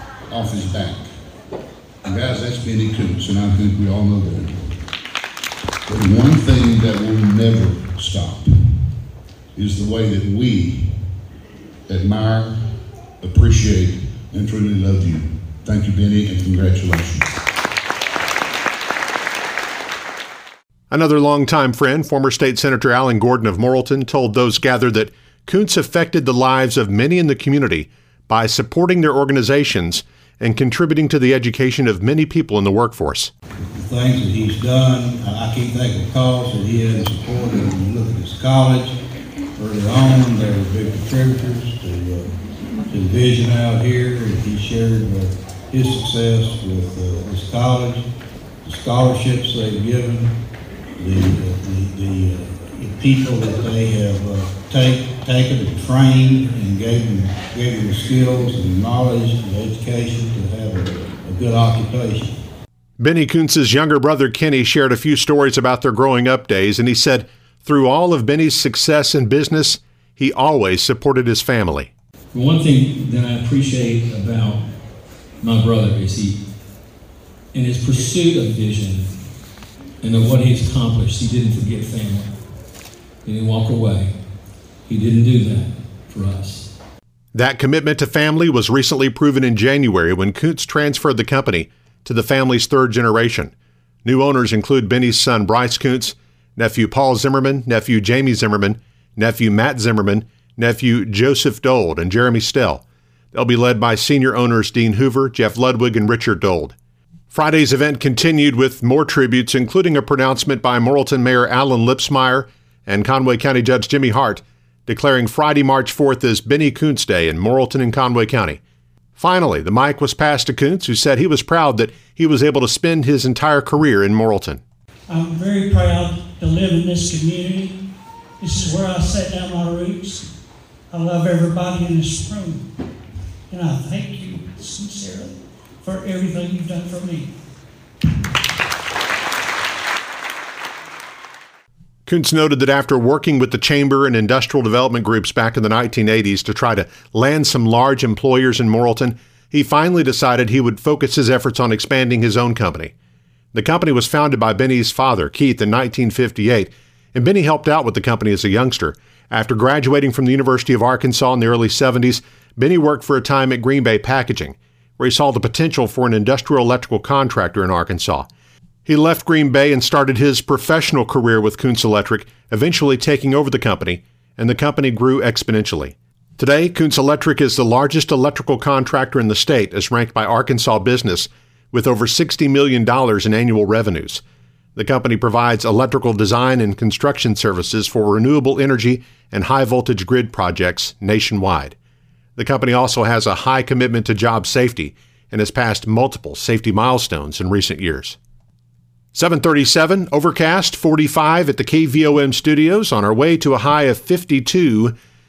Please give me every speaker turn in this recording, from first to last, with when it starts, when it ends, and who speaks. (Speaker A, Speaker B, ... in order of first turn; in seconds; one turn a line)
Speaker A: 0.3-1.1
Speaker A: 2.0-4.7
Speaker A: 5.9-8.8
Speaker A: 9.5-11.0
Speaker A: 11.9-12.6
Speaker A: 13.2-17.4
Speaker B: 20.9-33.3
Speaker C: 33.6-39.0
Speaker C: 39.6-42.3
Speaker C: 42.9-48.0
Speaker C: 48.6-50.3
Speaker C: 51.0-62.4
Speaker B: 63.0-71.9
Speaker D: 72.3-74.6
Speaker D: 75.4-76.4
Speaker D: 77.5-79.1
Speaker D: 80.0-82.3
Speaker D: 83.2-84.1
Speaker D: 84.8-86.7
Speaker B: 87.3-93.5
Speaker B: 94.0-106.7
Speaker B: 107.3-118.6
Speaker B: 119.2-124.6
Speaker E: 125.1-127.8
Speaker E: 128.4-130.3
Speaker E: 130.9-132.6
Speaker E: 133.5-137.3
Speaker B: 142.1-152.9
Speaker B: 153.5-168.3
Speaker B: 168.8-184.2
Speaker B: 184.8-191.7
Speaker B: 192.3-198.2
Speaker B: 199.1-205.0